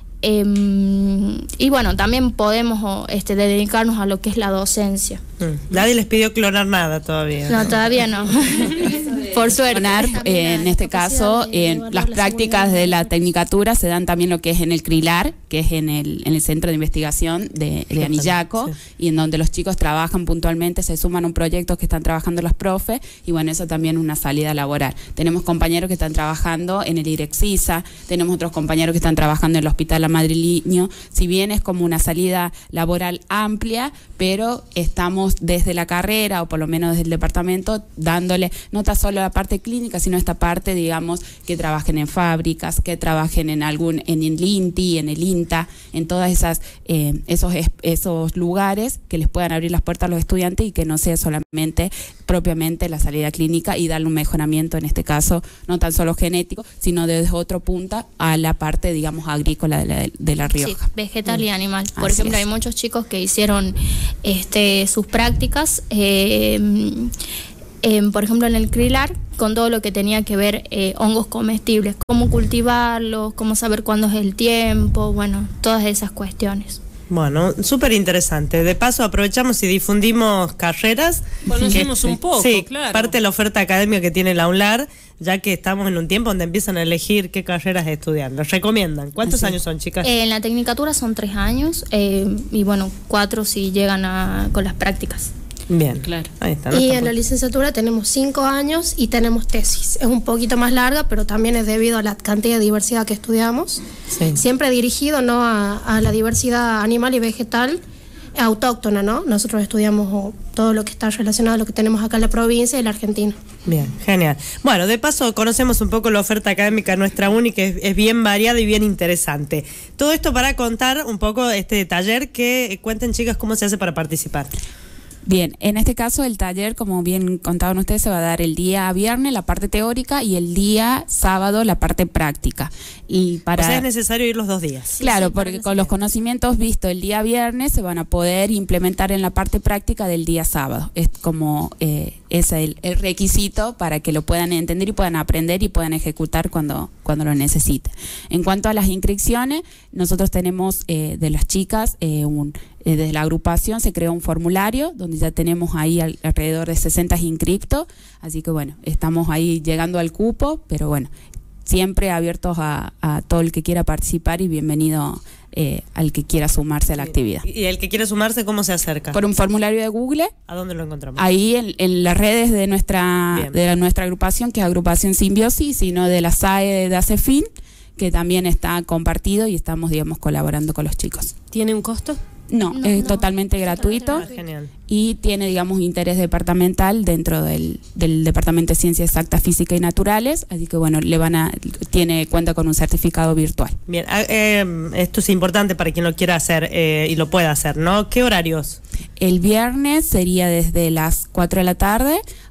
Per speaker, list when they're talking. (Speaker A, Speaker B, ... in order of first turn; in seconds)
Speaker A: 0.2-5.2, 7.5-10.2, 60.5-67.1, 67.8-76.8, 90.0-95.3, 135.0-135.9, 182.7-183.2, 183.8-184.3
Speaker B: 5.4-7.8, 18.0-18.7, 77.1-90.1, 95.7-97.1, 104.1-104.4, 113.7-124.5, 133.6-135.1, 167.0-169.2, 170.5-171.2, 184.1-184.7, 193.9-198.8
Speaker C: 9.7-60.8, 62.0-62.4, 125.2-133.8, 135.0-161.1, 161.7-167.4, 169.1-170.3, 171.2-181.4, 182.5-184.3, 184.9-193.8, 199.2-202.2
Speaker D: 10.0-13.0, 96.7-103.8, 104.3-107.8, 108.3-113.3, 183.6-184.1
Speaker E: 81.5-83.2, 89.3-89.6, 96.0-96.3, 181.5-182.2